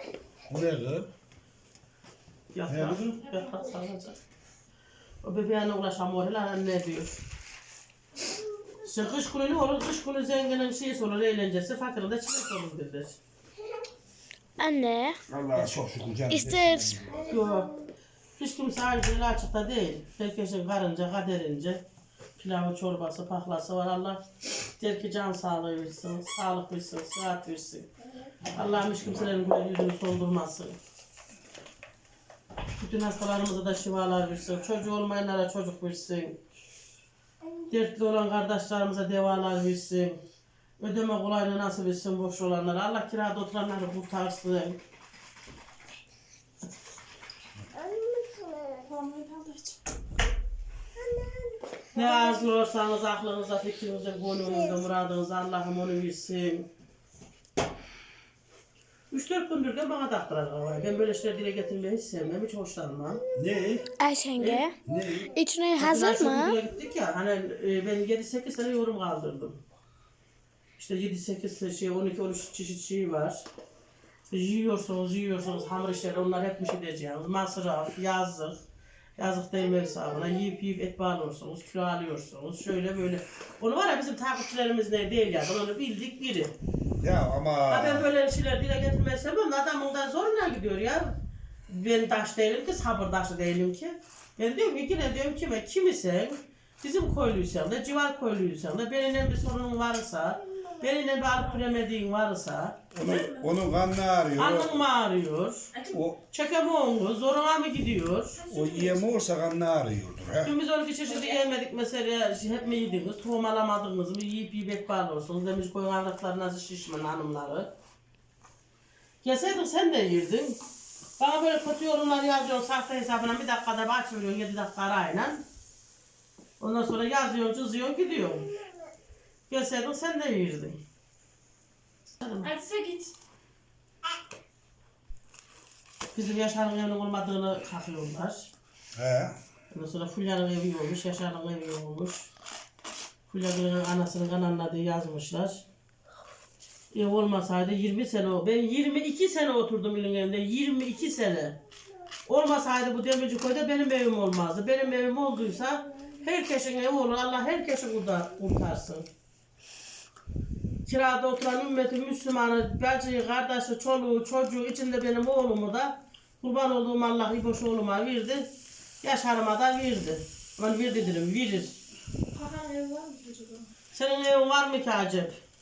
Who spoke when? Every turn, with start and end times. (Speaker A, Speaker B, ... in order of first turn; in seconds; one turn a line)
Speaker A: 0.5-1.1
Speaker B: 2.5-4.2
Speaker A: 2.7-3.1
Speaker B: 5.2-7.2
Speaker B: 8.8-13.2
Speaker C: 14.6-15.2
Speaker A: 15.3-17.4
Speaker C: 16.3-17.8
Speaker B: 17.3-17.7
Speaker B: 18.4-21.8
Speaker B: 22.4-24.2
Speaker B: 24.8-27.9
Speaker B: 28.5-30.8
Speaker B: 32.8-36.4
Speaker B: 37.7-40.2
Speaker B: 40.8-44.8
Speaker C: 47.7-48.9
Speaker D: 48.9-49.8
Speaker C: 51.0-51.6
Speaker B: 51.9-56.7
Speaker B: 59.1-63.2
Speaker A: 63.3-63.9
Speaker C: 64.0-64.8
Speaker B: 64.4-64.7
Speaker A: 64.8-65.3
Speaker C: 65.3-66.6
Speaker B: 65.8-69.6
Speaker B: 70.8-73.5
Speaker B: 74.3-78.6
Speaker B: 79.2-86.5
Speaker A: 87.0-88.1
Speaker B: 87.7-91.1
Speaker B: 91.7-102.8
Speaker A: 102.9-104.8
Speaker D: 103.0-103.5
Speaker B: 104.4-105.7
Speaker A: 105.9-106.2
Speaker B: 106.3-108.4
Speaker D: 108.4-109.1
Speaker A: 108.5-110.5
Speaker B: 110.4-117.7
Speaker B: 119.2-120.6
Speaker B: 121.2-125.4
Speaker B: 126.6-128.5
Speaker B: 129.5-130.8
Speaker B: 132.2-132.5
Speaker D: 132.4-133.1
Speaker B: 136.1-138.5
Speaker A: 138.9-139.4
Speaker B: 139.7-142.3
Speaker B: 143.3-145.6
Speaker B: 146.9-151.6
Speaker B: 152.3-159.1
Speaker B: 160.8-168.5
Speaker B: 169.0-171.8
Speaker D: 172.3-173.7
Speaker B: 173.9-175.3